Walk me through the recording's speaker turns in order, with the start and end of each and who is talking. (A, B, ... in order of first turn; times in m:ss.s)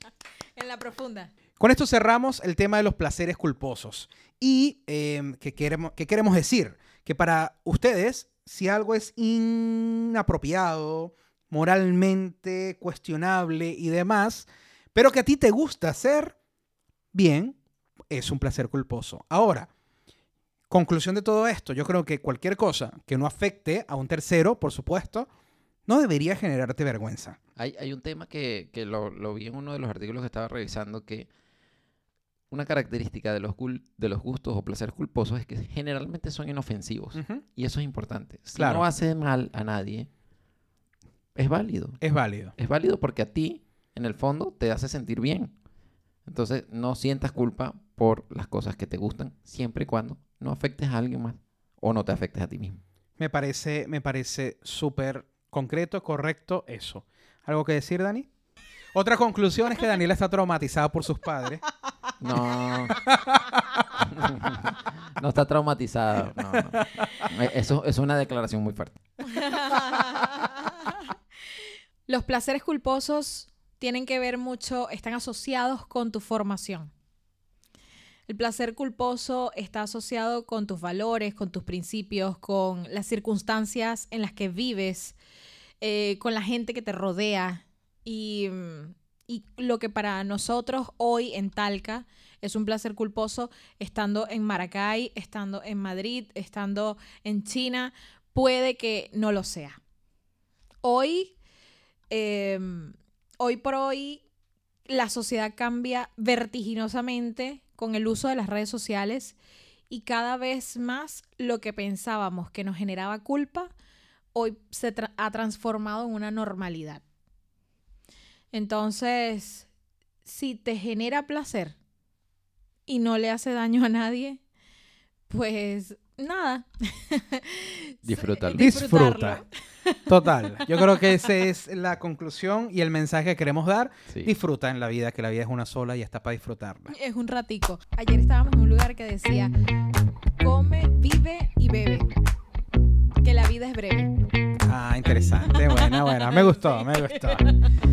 0:00.6-0:01.3 A
0:01.6-0:16.4 B
0:17.1-0:17.6 B
0:18.1-0:19.7 B
0:20.7-0:25.3 B
0:25.9-0:27.4 B
0:27.6-0:31.3 C
0:32.5-0:40.1 C
0:37.1-0:37.4 B
0:38.6-0:38.8 B
0:41.3-0:42.0 C
0:42.0-0:42.5 B
0:42.6-0:45.5 C
0:46.2-0:52.8 C
0:53.2-0:58.3 B
0:58.9-1:01.6 B
1:02.2-1:03.0 C
1:03.0-1:04.0 B
1:04.0-1:09.0 C
1:06.5-1:07.2 B
1:09.2-1:11.1 A
1:12.1-1:16.9 A
1:18.3-1:25.2 A
1:25.8-1:39.8 A
1:40.8-1:41.3 A
1:42.1-1:44.2 A
1:44.9-1:49.4 A
1:49.9-1:53.7 A
1:54.3-1:57.0 A
1:58.5-1:59.7 A
2:00.2-2:01.8 A
2:02.9-2:04.4 A
2:05.3-2:11.2 A
2:08.0-2:08.7 C
2:08.6-2:09.4 B
2:10.1-2:16.9 B
2:16.9-2:19.5 A
2:20.4-2:22.1 A
2:23.2-2:24.1 A
2:24.6-2:27.5 B
2:25.5-2:27.5 A